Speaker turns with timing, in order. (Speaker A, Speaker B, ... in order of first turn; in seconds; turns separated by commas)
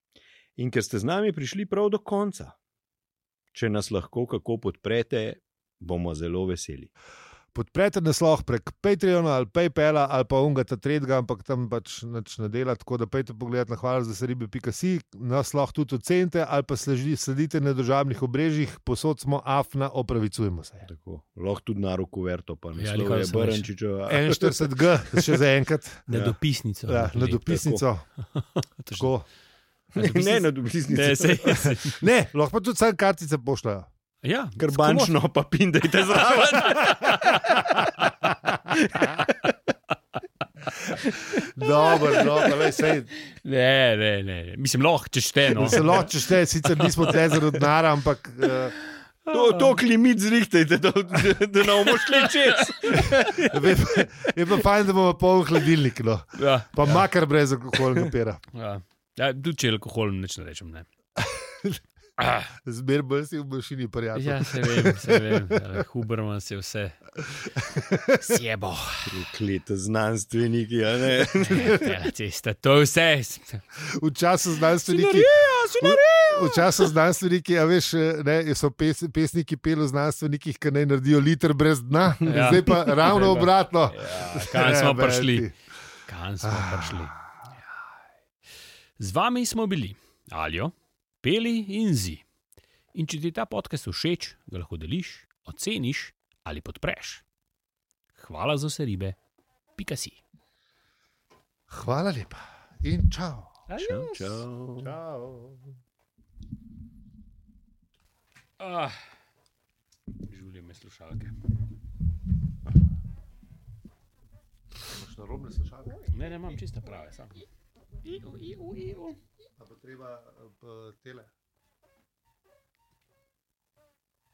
Speaker A: 0.6-2.5, Speaker A: 3.5-6.9, Speaker B: 7.5-20.9, Speaker A: 20.8-25.4, Speaker C: 22.8-23.7, Speaker B: 24.1-26.1, Speaker C: 26.1-27.4, Speaker A: 26.1-26.4, Speaker B: 26.9-28.0, Speaker A: 27.4-27.8, Speaker C: 28.3-29.1, Speaker B: 29.0-29.2, Speaker A: 29.9-31.7, Speaker C: 29.9-32.0, Speaker B: 32.0-33.9, Speaker C: 34.2-35.1, Speaker A: 34.6-37.5, Speaker C: 35.9-38.1, Speaker A: 38.7-39.5, Speaker C: 39.0-39.2, Speaker B: 41.4-43.1, Speaker C: 41.6-41.9, Speaker C: 43.2-46.1, Speaker B: 45.5-48.7, Speaker C: 46.8-47.3, Speaker C: 49.3-49.7, Speaker A: 49.3-54.0, Speaker C: 52.0-53.1, Speaker B: 52.9-58.4, Speaker C: 56.4-57.0, Speaker C: 58.5-60.9, Speaker B: 61.2-61.8, Speaker C: 62.2-62.5, Speaker B: 62.6-65.6, Speaker C: 64.1-67.0, Speaker B: 67.2-68.4, Speaker C: 68.2-69.2, Speaker A: 69.0-71.9, Speaker C: 71.5-73.6, Speaker B: 73.8-85.5, Speaker C: 74.8-76.9, Speaker C: 82.2-85.5, Speaker C: 86.1-87.1, Speaker B: 86.4-87.2, Speaker C: 89.0-92.2, Speaker C: 92.9-97.2, Speaker C: 98.2-99.2, Speaker C: 99.8-100.2, Speaker B: 101.7-103.6, Speaker C: 103.7-104.4, Speaker A: 103.8-104.9, Speaker B: 104.8-105.7, Speaker C: 108.6-109.0, Speaker C: 110.3-111.3, Speaker B: 114.9-116.1, Speaker C: 116.1-117.4, Speaker C: 118.0-119.2, Speaker B: 119.6-121.3